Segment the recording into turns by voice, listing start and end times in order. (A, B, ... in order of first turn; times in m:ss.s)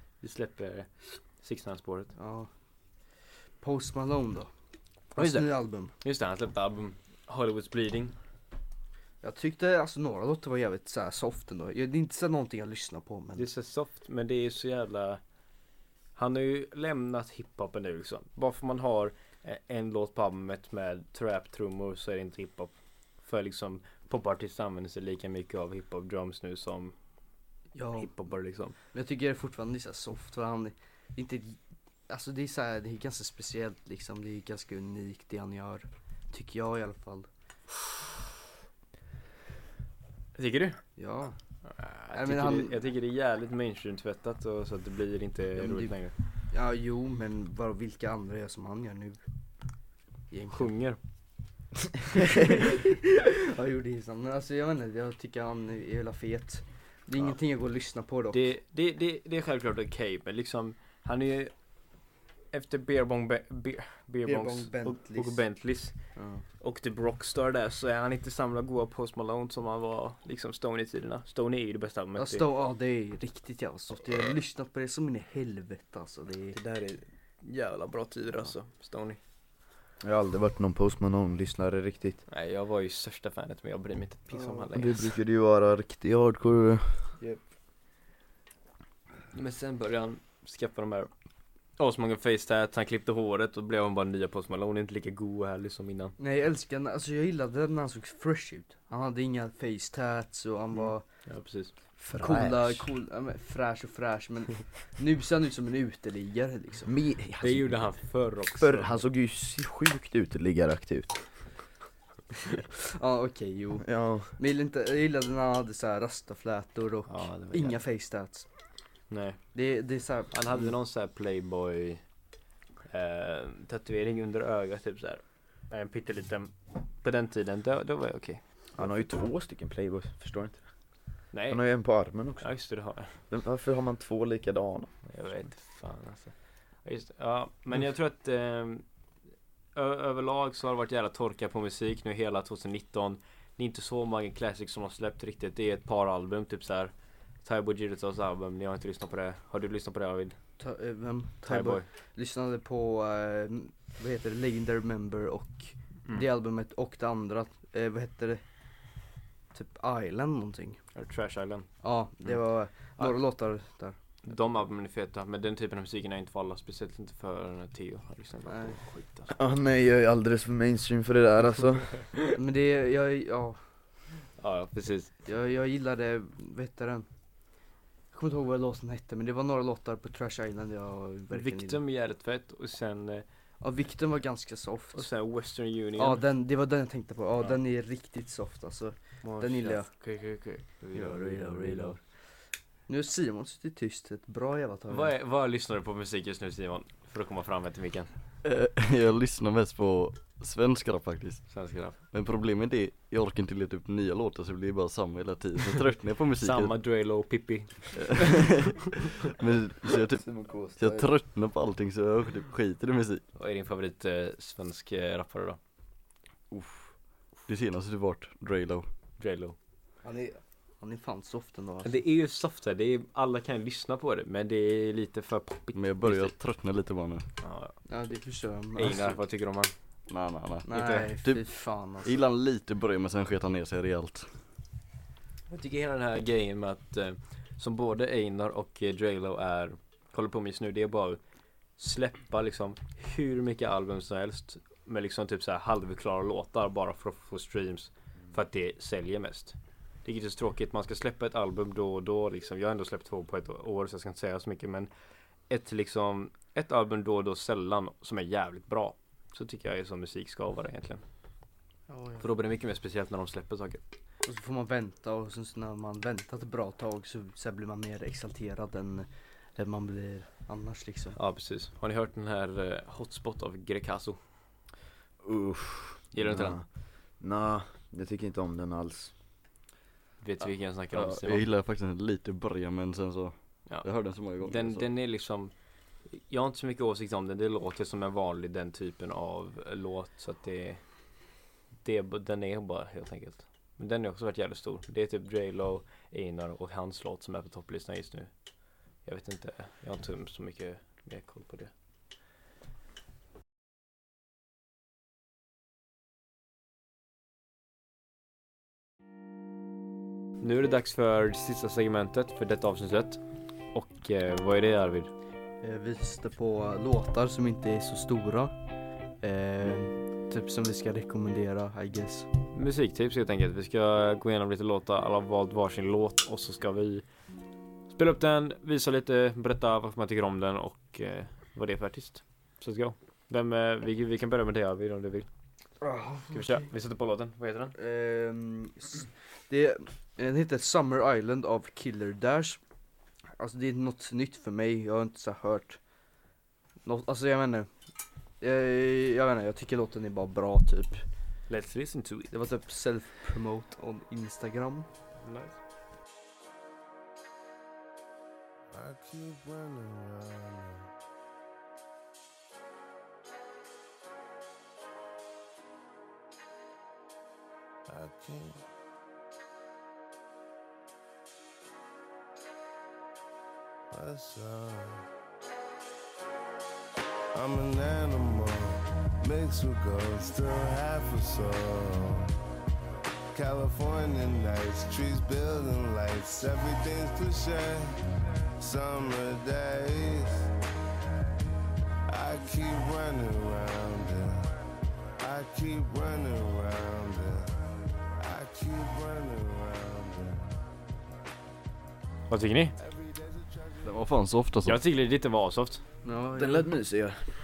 0:00.2-0:02.1 A
0:02.2-0:02.5 B
0:03.6-0:04.5 B
0:05.2-0:05.9 B
0:05.2-0:05.5 A
0:06.0-0:08.2 A
0:09.2-0:13.5 B
0:13.4-0:15.2 A
0:16.2-0:22.7 A
0:23.2-0:26.9 A
0:27.8-0:28.1 B
0:28.0-0:28.8 A
0:28.9-0:31.6 B
0:32.1-0:37.3 B
0:40.4-0:40.8 A
0:41.0-0:41.4 B
0:41.7-0:46.1 A
0:42.1-0:42.8 B
0:45.6-0:46.0 B
0:46.5-0:49.2 B
0:50.3-0:50.7 B
0:50.5-0:51.0 A
0:52.1-0:58.4 B
0:58.3-1:01.5 A
1:02.5-1:06.0 A
1:04.2-1:05.4 B
1:06.2-1:06.4 B
1:06.6-1:12.4 A
1:12.2-1:16.6 B
1:16.5-1:19.2 A
1:20.0-1:22.2 C
1:22.3-1:25.1 A
1:24.3-1:24.7 B
1:24.7-1:27.1 C
1:29.3-1:31.1 A
1:31.8-1:36.1 A
1:36.2-1:41.0 B
1:40.8-1:41.7 A
1:42.0-1:42.9 C
1:42.2-1:46.9 B
1:46.9-1:48.0 C
1:47.4-1:49.0 A
1:48.6-1:51.2 C
1:53.0-1:58.5 B
1:53.8-1:54.3 C
1:57.1-1:57.8 A
1:59.1-1:59.4 A
1:59.5-2:00.7 B
2:00.3-2:02.0 A
2:02.9-2:08.9 A
2:08.8-2:10.6 C
2:11.3-2:11.6 A
2:11.5-2:12.6 C
2:12.4-2:13.2 A
2:13.1-2:14.9 C
2:15.1-2:18.8 A
2:19.8-2:26.9 A
2:27.4-2:30.4 A
2:30.6-2:38.4 B
2:31.5-2:31.8 A
2:39.5-2:40.8 B
2:41.0-2:41.7 A
2:41.8-2:44.0 B
2:44.2-2:49.3 A
2:48.5-2:48.8 B
2:49.3-2:52.1 C
2:52.3-2:53.6 B
2:54.4-2:55.1 A
2:55.3-2:57.1 B
2:58.1-3:01.8 B
3:01.3-3:03.2 A
3:03.6-3:05.1 B
3:04.9-3:06.2 A
3:06.0-3:09.9 B
3:09.2-3:12.0 A
3:10.9-3:12.0 B
3:12.9-3:15.1 B
3:14.9-3:18.1 A
3:18.4-3:26.7 D
3:21.5-3:22.0 A
3:26.4-3:28.4 A
3:28.0-3:33.2 D
3:30.2-3:31.1 C
3:33.4-3:35.6 A
3:36.5-3:36.8 D
3:37.5-3:38.9 D
3:39.2-3:39.6 A
3:40.0-3:42.0 B
3:41.8-3:46.3 A
3:45.8-3:47.2 D
3:47.4-3:47.8 A
3:47.9-3:49.2 B
3:48.8-3:49.7 A
3:50.1-3:51.4 D
3:50.7-3:52.1 B
3:50.7-3:51.1 A
3:52.0-3:54.3 D
3:55.5-4:01.2 A
4:01.8-4:14.9 A
4:15.5-4:21.0 A
4:21.9-4:22.2 B
4:22.2-4:23.8 A
4:24.3-4:31.2 B
4:31.2-4:34.2 A
4:35.2-4:36.7 C
4:36.1-4:36.6 A
4:37.2-4:39.1 C
4:40.2-4:41.4 A
4:40.9-4:44.9 D
4:43.7-4:45.5 A
4:46.1-4:50.8 A
4:51.8-4:58.3 A
4:59.0-5:01.7 A
5:10.4-5:13.2 A
5:13.7-5:15.1 A
5:15.6-5:18.5 B
5:19.2-5:22.3 B
5:22.5-5:27.0 A
5:27.9-5:35.3 A
5:35.8-5:36.7 B
5:36.3-5:37.7 A
5:37.8-5:42.6 B
5:43.4-5:45.8 B
5:46.8-5:47.7 B
5:48.4-5:51.0 B
5:51.5-5:52.3 A
5:52.3-5:54.9 B
5:55.2-5:55.6 A
5:58.7-6:00.9 E
6:07.9-6:08.6 E
6:13.9-6:15.1 E
6:17.3-6:22.3 E
6:23.3-6:28.0 E
6:28.6-6:30.5 E
6:32.1-6:34.5 E
6:35.2-6:37.6 E
6:38.2-6:40.7 E
6:42.3-6:42.8 A
6:42.8-6:44.0 E
6:43.8-6:44.8 D
6:44.6-6:45.8 A
6:46.0-6:46.7 B
6:46.3-6:47.3 C